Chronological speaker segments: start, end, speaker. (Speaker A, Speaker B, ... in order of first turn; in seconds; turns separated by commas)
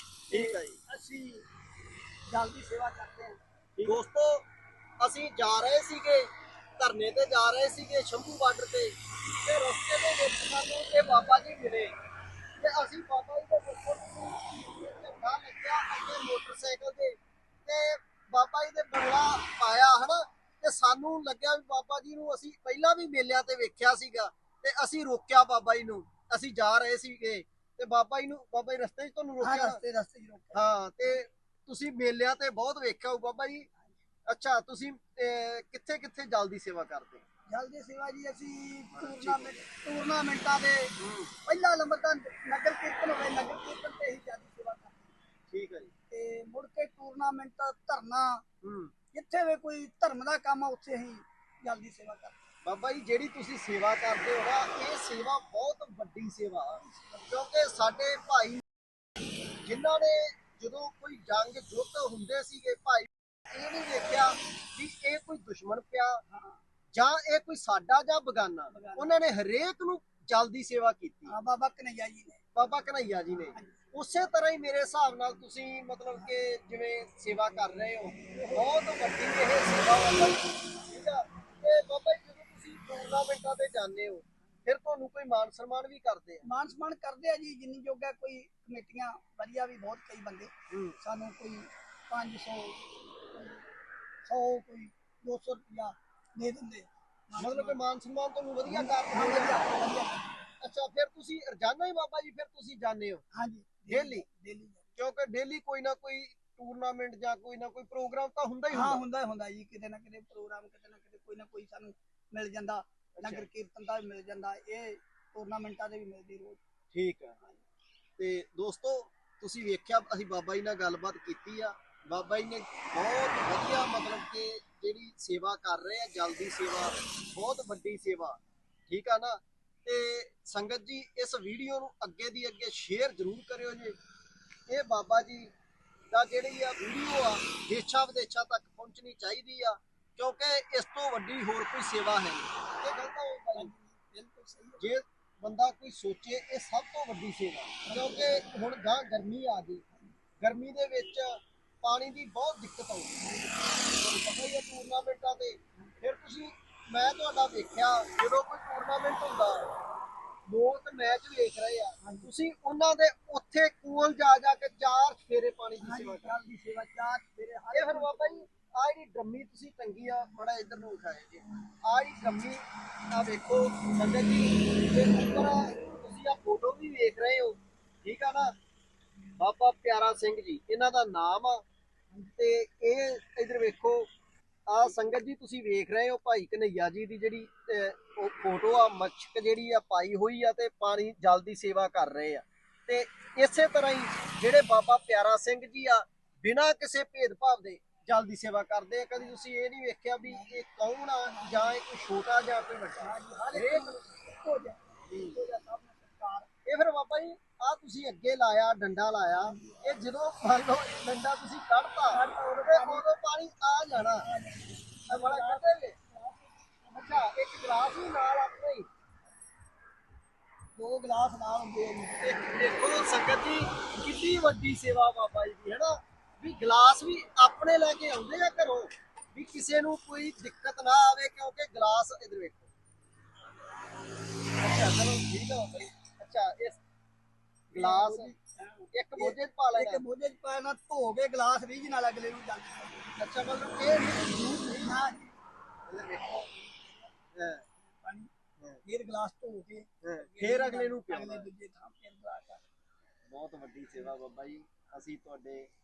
Speaker A: 0.3-1.5, Speaker B: 0.3-0.8, Speaker A: 2.3-3.9, Speaker B: 3.8-4.5, Speaker B: 5.0-11.9, Speaker B: 12.6-29.8, Speaker A: 29.4-30.6, Speaker B: 30.5-33.7, Speaker B: 34.3-37.2, Speaker A: 37.5-40.9, Speaker B: 38.9-39.6, Speaker B: 41.0-41.3, Speaker A: 41.5-45.1, Speaker B: 45.5-45.9, Speaker A: 46.1-48.4, Speaker B: 48.6-48.9, Speaker A: 49.1-52.4, Speaker B: 52.6-58.6, Speaker A: 56.8-57.3, Speaker B: 59.6-66.2, Speaker A: 66.3-66.6, Speaker B: 66.9-71.3, Speaker A: 68.7-69.1, Speaker A: 71.3-72.4, Speaker B: 72.5-86.4, Speaker A: 73.5-73.9, Speaker A: 78.2-78.8, Speaker A: 86.5-93.6, Speaker B: 90.7-91.0, Speaker A: 94.2-97.8, Speaker B: 97.4-99.7, Speaker A: 98.7-100.3, Speaker B: 100.6-103.2, Speaker A: 103.3-104.9, Speaker B: 103.9-104.2, Speaker B: 105.0-109.0, Speaker A: 108.7-116.6, Speaker B: 113.2-113.5, Speaker B: 116.9-117.4, Speaker B: 118.2-134.0, Speaker B: 134.7-135.5, Speaker B: 136.1-143.7, Speaker A: 143.5-144.9, Speaker B: 144.8-149.8, Speaker A: 147.8-148.3, Speaker B: 150.4-153.2, Speaker B: 153.8-159.7, Speaker B: 160.5-166.4, Speaker A: 162.0-162.3, Speaker A: 165.8-168.5, Speaker B: 167.7-172.6, Speaker B: 173.1-178.6, Speaker B: 179.4-181.6, Speaker B: 182.3-184.1, Speaker B: 184.7-203.9, Speaker A: 200.2-200.6, Speaker A: 201.3-201.8, Speaker A: 203.0-206.5, Speaker B: 205.1-205.4, Speaker B: 206.7-214.3, Speaker A: 209.4-209.9, Speaker A: 212.1-213.1, Speaker A: 214.0-217.3, Speaker B: 215.1-215.9, Speaker B: 216.9-218.9, Speaker A: 220.8-222.4, Speaker B: 222.2-232.7, Speaker B: 234.6-236.8, Speaker B: 237.7-238.3, Speaker A: 237.7-243.1, Speaker B: 238.9-240.0, Speaker B: 243.2-244.9, Speaker A: 244.7-245.3, Speaker B: 245.9-246.4, Speaker A: 246.2-247.1, Speaker B: 247.3-247.7, Speaker A: 248.0-248.3, Speaker A: 248.8-252.6, Speaker B: 250.0-251.5, Speaker B: 253.3-255.7